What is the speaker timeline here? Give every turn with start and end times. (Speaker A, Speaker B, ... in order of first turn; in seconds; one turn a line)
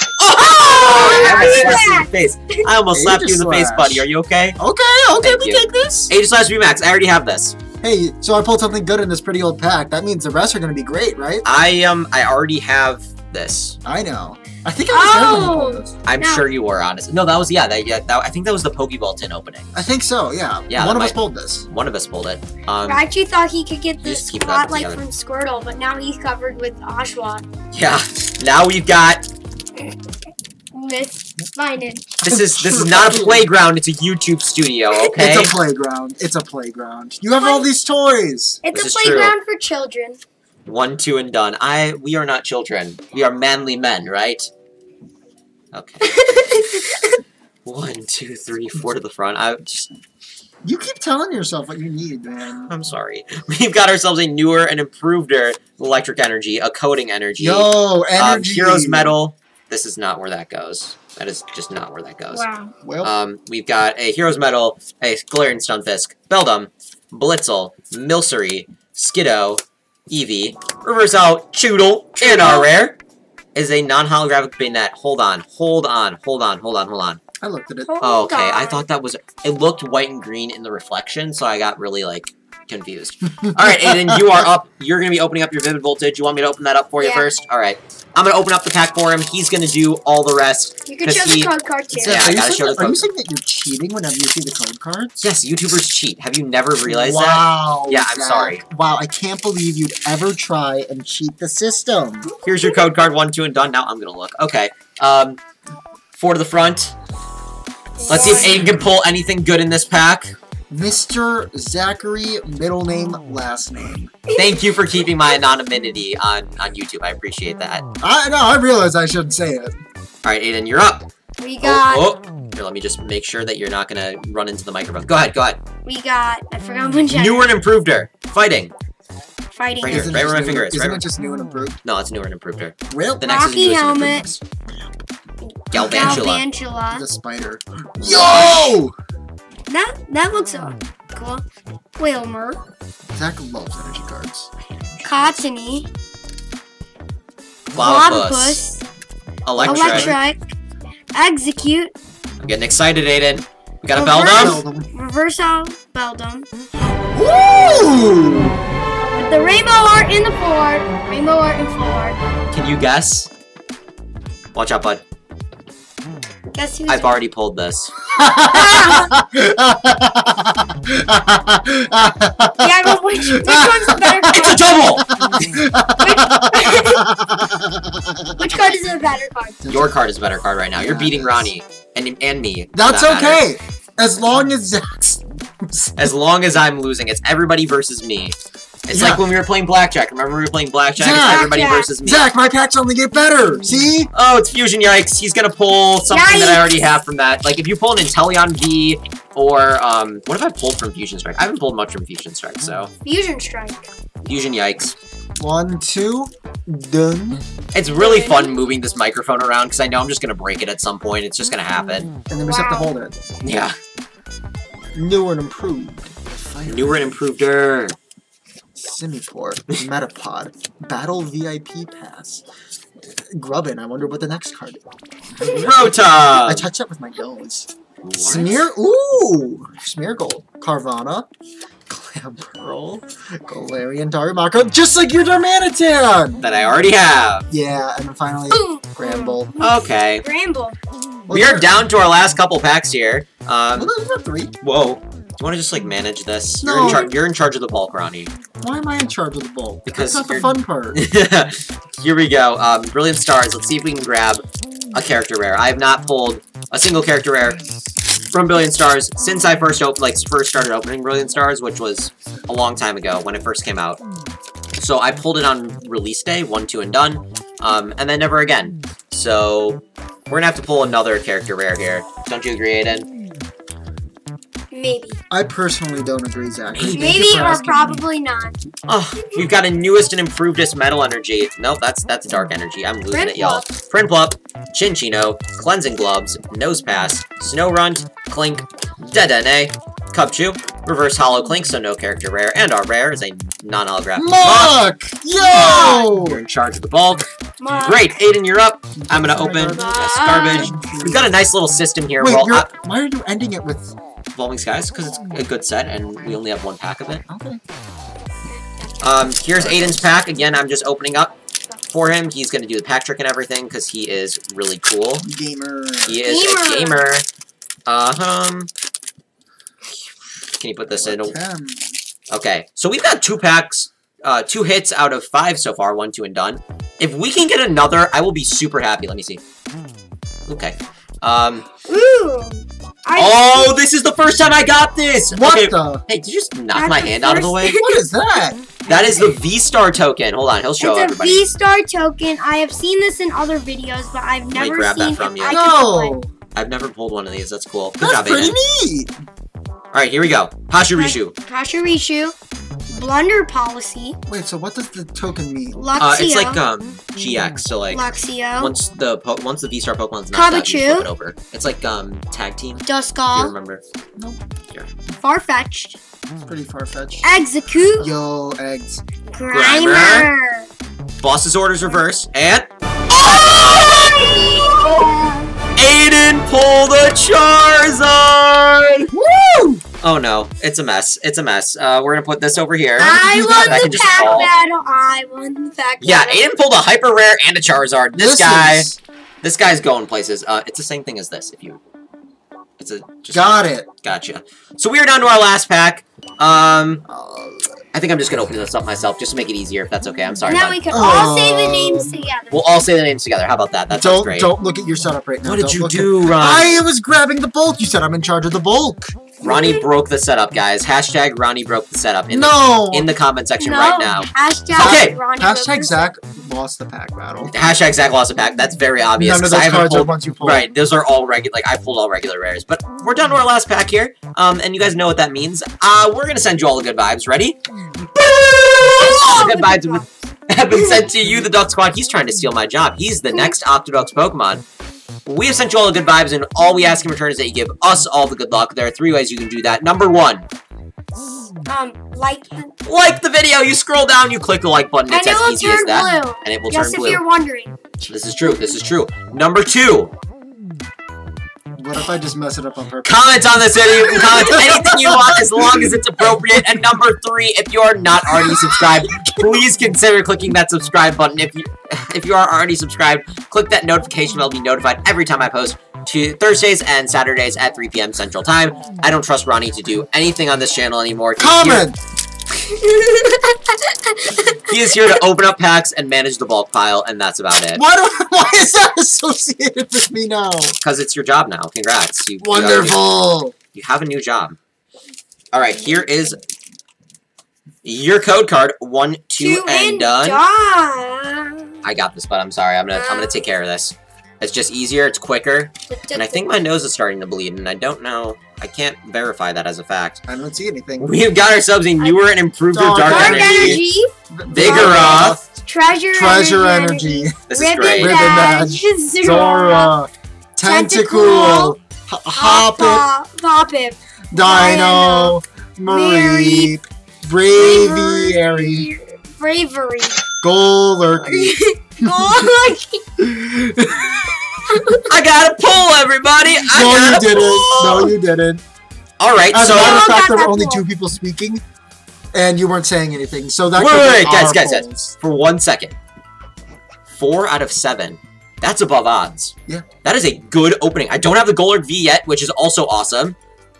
Speaker A: 0.2-4.6
Speaker B: 0.8-2.7
Speaker C: 1.4-1.8
Speaker C: 2.9-4.1
Speaker C: 4.6-6.1
Speaker A: 5.2-7.5
Speaker C: 7.8-11.4
Speaker A: 11.4-13.8
Speaker C: 13.8-15.9
Speaker B: 14.9-16.5
Speaker A: 16.0-19.8
Speaker C: 19.7-21.7
Speaker A: 20.7-23.0
Speaker B: 22.8-27.5
Speaker A: 24.0-25.0
Speaker A: 27.7-29.2
Speaker B: 30.7-32.2
Speaker A: 32.2-35.5
Speaker C: 32.2-33.5
Speaker C: 35.1-38.6
Speaker B: 37.4-37.7
Speaker B: 38.6-40.2
Speaker A: 38.7-39.4
Speaker A: 40.6-44.5
Speaker A: 45.7-46.2
Speaker B: 46.0-47.1
Speaker A: 47.6-49.9
Speaker C: 50.6-52.7
Speaker A: 52.6-62.5
Speaker C: 57.4-59.1
Speaker B: 62.3-62.7
Speaker C: 62.8-63.1
Speaker A: 63.0-72.9
Speaker B: 72.2-72.7
Speaker A: 73.5-77.2
Speaker C: 77.4-78.0
Speaker B: 77.9-78.9
Speaker A: 78.0-93.1
Speaker C: 83.6-84.3
Speaker B: 87.0-87.3
Speaker B: 90.8-92.2
Speaker C: 91.9-95.3
Speaker A: 95.2-98.6
Speaker C: 96.8-102.3
Speaker A: 102.4-105.4
Speaker A: 106.1-106.9
Speaker B: 108.0-108.7
Speaker A: 108.1-110.3
Speaker C: 110.7-114.1
Speaker B: 114.3-114.6
Speaker A: 114.3-117.8
Speaker C: 118.0-119.8
Speaker A: 120.2-121.1
Speaker B: 121.4-122.1
Speaker A: 121.6-125.6
Speaker B: 125.8-127.5
Speaker A: 127.1-128.7
Speaker B: 129.6-130.1
Speaker A: 129.8-131.1
Speaker C: 129.8-131.8
Speaker A: 131.8-134.4
Speaker C: 132.9-133.3
Speaker B: 133.2-134.3
Speaker B: 135.6-137.1
Speaker A: 135.7-136.4
Speaker C: 135.9-136.2
Speaker C: 136.9-138.9
Speaker A: 138.0-138.7
Speaker B: 139.7-141.4
Speaker B: 142.0-142.6
Speaker C: 143.1-144.5
Speaker B: 145.0-145.9
Speaker A: 147.7-148.6
Speaker B: 147.7-148.8
Speaker A: 149.4-150.2
Speaker C: 149.5-150.2
Speaker B: 149.7-150.4
Speaker B: 151.1-151.9
Speaker A: 152.4-154.6
Speaker B: 153.9-156.5
Speaker C: 154.3-154.9
Speaker C: 157.1-158.6
Speaker B: 159.1-162.2
Speaker A: 162.5-163.3
Speaker A: 164.5-165.0
Speaker B: 166.5-167.2
Speaker A: 166.9-167.9
Speaker C: 168.2-178.6
Speaker B: 168.2-169.2
Speaker B: 172.6-175.0
Speaker A: 174.3-175.1
Speaker B: 176.0-177.0
Speaker B: 178.4-179.7
Speaker C: 179.6-180.0
Speaker A: 179.7-183.5
Speaker C: 180.7-181.5
Speaker C: 182.7-185.9
Speaker A: 185.9-188.3
Speaker A: 188.9-192.3
Speaker C: 188.9-189.2
Speaker C: 190.9-194.1
Speaker B: 191.3-192.0
Speaker A: 194.1-202.9
Speaker B: 196.1-196.8
Speaker B: 203.0-203.8
Speaker A: 204.2-204.9
Speaker C: 205.4-207.4
Speaker A: 207.7-212.1
Speaker B: 207.9-208.7
Speaker C: 212.3-213.2
Speaker B: 212.3-212.9
Speaker A: 213.4-213.7
Speaker C: 214.9-217.2
Speaker A: 216.7-217.9
Speaker C: 218.8-222.4
Speaker C: 223.0-224.8
Speaker C: 225.3-231.3
Speaker A: 225.4-226.7
Speaker A: 228.0-228.6
Speaker C: 231.9-236.4
Speaker A: 236.4-237.4
Speaker C: 237.5-239.6
Speaker B: 238.5-240.8
Speaker A: 239.6-240.2
Speaker C: 241.3-241.7
Speaker A: 241.3-243.9
Speaker C: 243.7-244.5
Speaker A: 244.6-248.3
Speaker C: 246.6-247.2
Speaker C: 248.6-251.0
Speaker A: 249.8-257.6
Speaker A: 258.3-264.0
Speaker A: 264.8-273.1
Speaker B: 274.7-275.2
Speaker C: 275.3-278.0
Speaker A: 276.7-277.1
Speaker B: 276.9-278.6
Speaker A: 278.9-294.8
Speaker B: 283.1-283.7
Speaker C: 294.1-296.4
Speaker A: 295.5-302.7
Speaker B: 295.5-296.1
Speaker B: 297.6-298.1
Speaker C: 299.0-301.3
Speaker B: 299.7-300.9
Speaker C: 302.2-303.9
Speaker A: 304.3-307.2
Speaker C: 307.2-307.6
Speaker B: 308.4-309.2
Speaker A: 309.0-311.3
Speaker C: 309.6-310.1
Speaker A: 311.9-315.2
Speaker C: 315.2-316.2
Speaker A: 316.1-317.2
Speaker B: 316.2-317.1
Speaker A: 317.9-318.7
Speaker A: 320.6-321.4
Speaker C: 320.9-321.9
Speaker A: 322.3-329.4
Speaker A: 330.5-331.7
Speaker B: 331.9-333.8
Speaker A: 333.1-337.8
Speaker C: 335.3-336.0
Speaker B: 336.7-338.0
Speaker C: 337.8-338.7
Speaker A: 338.8-341.5
Speaker B: 340.8-346.2
Speaker A: 344.5-345.6
Speaker C: 345.4-346.3
Speaker A: 346.5-348.6
Speaker C: 348.0-349.1
Speaker A: 349.9-351.3
Speaker B: 350.9-352.3
Speaker B: 352.9-354.2
Speaker C: 354.3-355.9
Speaker B: 355.7-356.6
Speaker A: 356.0-363.8
Speaker B: 357.9-358.7
Speaker B: 360.3-361.1
Speaker B: 362.8-363.5
Speaker B: 365.2-366.0
Speaker C: 366.4-367.3
Speaker B: 367.2-368.1
Speaker C: 368.0-369.0
Speaker B: 369.3-370.7
Speaker A: 369.5-370.3
Speaker A: 371.2-375.2
Speaker B: 373.2-375.5
Speaker A: 375.8-379.1
Speaker C: 379.1-379.8
Speaker A: 380.0-384.5
Speaker C: 383.0-384.4
Speaker B: 383.0-386.5
Speaker A: 386.0-388.9
Speaker C: 388.1-389.0
Speaker A: 389.4-391.8
Speaker A: 392.8-397.0
Speaker C: 393.3-393.9
Speaker C: 397.1-397.8
Speaker A: 397.9-400.9
Speaker B: 400.5-402.6
Speaker C: 400.9-402.1
Speaker A: 402.5-404.5
Speaker C: 403.9-409.3
Speaker A: 405.4-406.8
Speaker A: 409.4-415.2
Speaker B: 409.5-409.8
Speaker C: 412.3-413.1
Speaker B: 413.6-416.1
Speaker C: 414.7-417.5
Speaker A: 417.4-427.6
Speaker C: 419.1-420.7
Speaker A: 428.1-434.6
Speaker B: 428.9-430.1
Speaker B: 430.7-431.1
Speaker B: 433.3-433.6
Speaker A: 435.2-440.4
Speaker B: 441.6-442.7
Speaker A: 442.8-447.2
Speaker B: 445.1-447.8
Speaker A: 448.0-450.1
Speaker C: 451.7-456.0
Speaker A: 453.0-471.9
Speaker C: 458.3-459.5
Speaker C: 471.4-472.0
Speaker B: 472.6-474.7
Speaker A: 474.6-477.8
Speaker C: 477.7-480.7
Speaker A: 480.8-483.1
Speaker C: 482.4-483.5
Speaker A: 483.7-484.6
Speaker A: 485.5-486.4
Speaker A: 487.8-490.4
Speaker B: 489.4-491.7
Speaker A: 491.8-500.2
Speaker B: 492.9-493.5
Speaker B: 495.9-496.4
Speaker C: 500.3-501.2
Speaker A: 501.0-503.8
Speaker C: 502.7-503.8
Speaker B: 503.0-509.9
Speaker C: 504.3-505.6
Speaker A: 504.5-505.4
Speaker C: 506.1-507.4
Speaker A: 507.5-508.2
Speaker C: 507.9-513.1
Speaker B: 510.6-511.8
Speaker B: 512.3-516.8
Speaker C: 514.3-518.9
Speaker B: 517.5-520.2
Speaker C: 520.4-522.5
Speaker B: 521.2-523.0
Speaker C: 523.2-524.9
Speaker B: 524.7-525.0
Speaker A: 525.0-528.1
Speaker C: 526.6-528.6
Speaker A: 529.2-530.1
Speaker C: 529.5-531.6
Speaker B: 529.8-530.8
Speaker C: 532.3-535.1
Speaker A: 533.7-535.9
Speaker A: 537.1-543.4